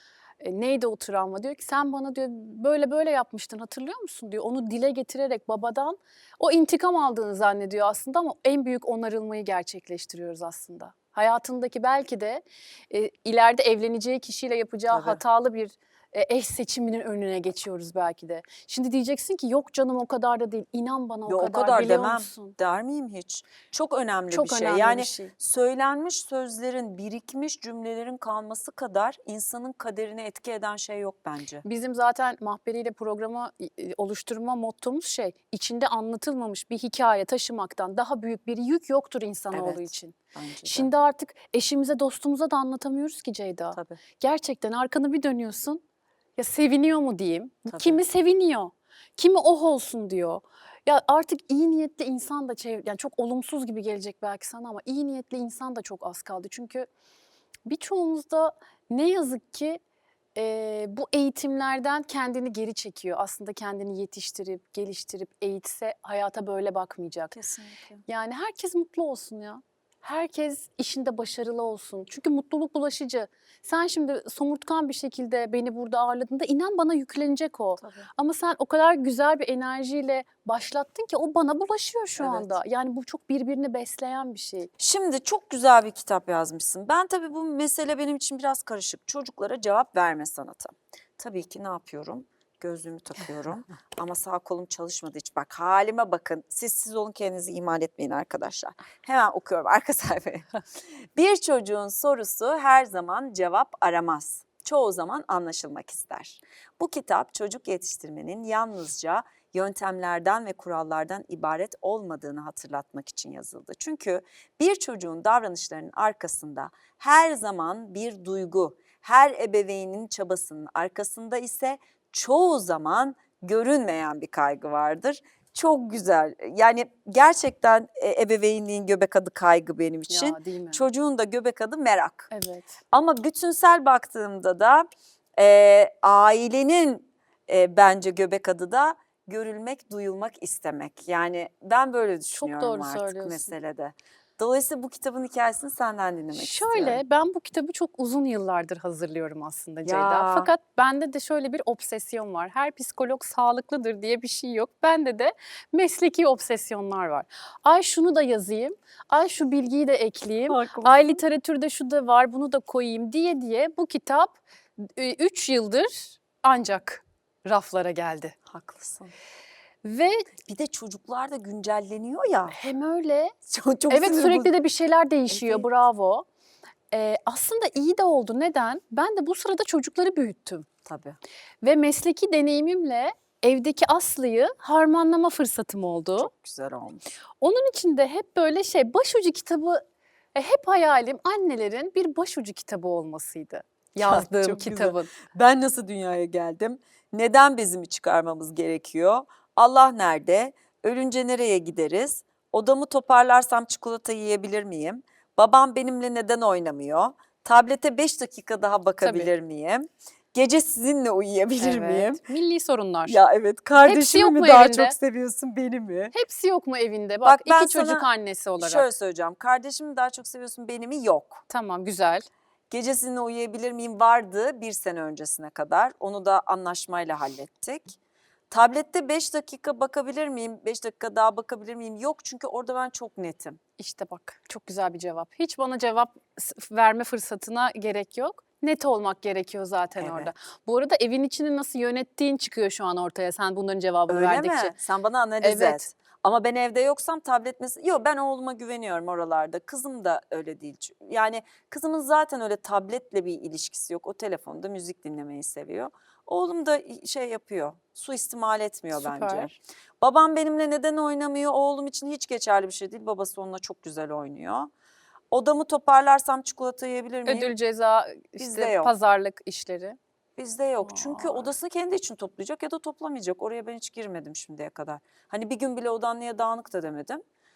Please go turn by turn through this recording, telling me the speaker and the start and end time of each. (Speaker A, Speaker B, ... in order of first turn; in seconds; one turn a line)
Speaker A: 0.4-22.6
Speaker B: 14.9-15.2
Speaker B: 21.3-31.6
Speaker A: 24.3-25.3
Speaker A: 31.6-45.8
Speaker B: 39.5-40.9
Speaker B: 43.7-44.0
Speaker A: 46.4-56.9
Speaker B: 47.7-48.0
Speaker A: 57.7-59.8
Speaker A: 60.4-67.3
Speaker B: 67.3-68.0
Speaker A: 68.1-84.7
Speaker B: 77.8-78.1
Speaker B: 82.2-82.5
Speaker B: 84.8-100.5
Speaker B: 101.2-132.3
Speaker A: 130.1-130.9
Speaker A: 132.3-132.8
Speaker B: 132.9-147.0
Speaker A: 142.3-143.5
Speaker A: 146.3-168.3
Speaker B: 149.8-150.5
Speaker B: 160.5-161.2
Speaker B: 168.5-169.1
Speaker A: 169.8-170.3
Speaker B: 170.4-172.6
Speaker A: 172.5-173.3
Speaker B: 173.5-174.5
Speaker A: 173.9-176.2
Speaker B: 175.3-175.7
Speaker A: 176.9-180.7
Speaker B: 180.8-181.2
Speaker A: 181.6-186.3
Speaker B: 186.2-187.0
Speaker A: 187.4-189.8
Speaker A: 190.3-195.1
Speaker B: 194.0-212.2
Speaker A: 209.0-209.3
Speaker A: 211.6-213.2
Speaker B: 213.1-216.2
Speaker A: 213.8-214.9
Speaker A: 216.1-218.9
Speaker B: 217.2-218.1
Speaker B: 218.6-221.4
Speaker A: 221.5-222.2
Speaker B: 222.7-228.0
Speaker B: 228.5-233.6
Speaker A: 233.8-244.8
Speaker B: 240.0-240.3
Speaker B: 244.1-264.7
Speaker A: 245.4-245.9
Speaker A: 258.9-259.5
Speaker B: 265.3-267.5
Speaker A: 267.3-270.0
Speaker B: 268.4-268.9
Speaker B: 270.4-277.2
Speaker A: 270.8-271.5